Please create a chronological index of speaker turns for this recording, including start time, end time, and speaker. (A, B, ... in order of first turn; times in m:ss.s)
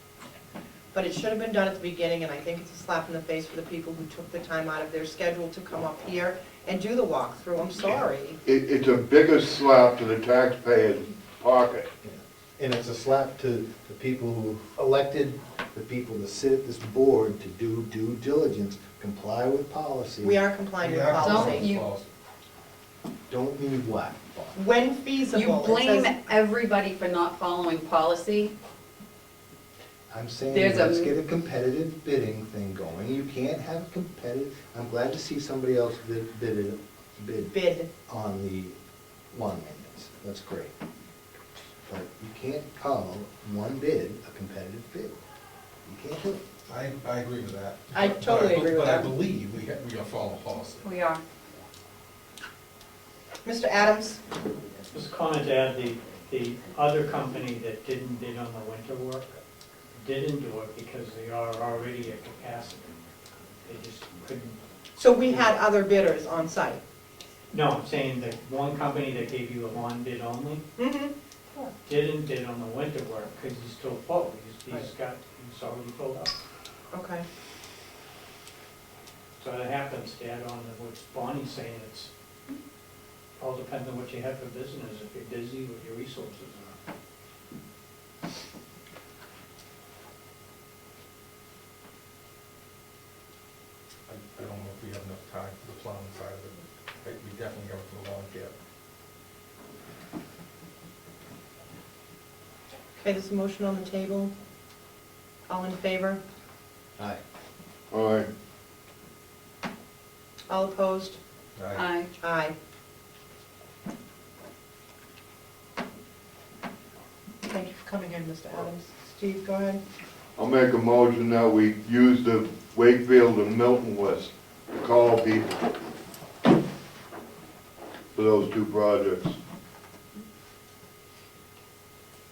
0:00.9-0:08.4 A
0:08.4-0:11.9 B
0:12.0-0:20.4 C
0:20.2-0:21.6 A
0:20.8-0:22.1 D
0:21.2-0:21.9 E
0:23.3-0:24.6 C
0:24.5-0:26.1 A
0:25.3-0:28.5 E
0:30.1-0:38.7 C
0:30.5-0:31.1 E
0:37.5-0:37.9 A
0:39.3-0:40.7 C
0:41.8-0:45.2 C
0:45.8-0:46.4 C
0:46.7-0:50.8 D
0:47.9-0:49.1 A
0:50.8-0:51.2 E
0:53.4-0:54.2 A
0:54.9-0:59.4 F
0:59.9-1:03.0 F
1:03.6-1:04.6 F
1:05.0-1:06.8 A
1:05.2-1:05.5 F
1:07.5-1:10.6 F
1:10.8-1:11.7 A
1:11.8-1:16.4 F
1:16.9-1:17.2 A
1:19.4-1:22.1 F
1:23.4-1:26.8 F
1:34.1-1:38.5 D
1:43.0-1:44.3 A
1:45.5-1:46.2 A
1:47.9-1:48.3 B
1:50.5-1:51.2 A
1:51.6-1:51.8 D
1:51.7-1:52.1 E
1:52.2-1:52.5 A
1:57.4-1:59.8 A
2:00.4-2:05.5 B
2:08.1-2:09.4 B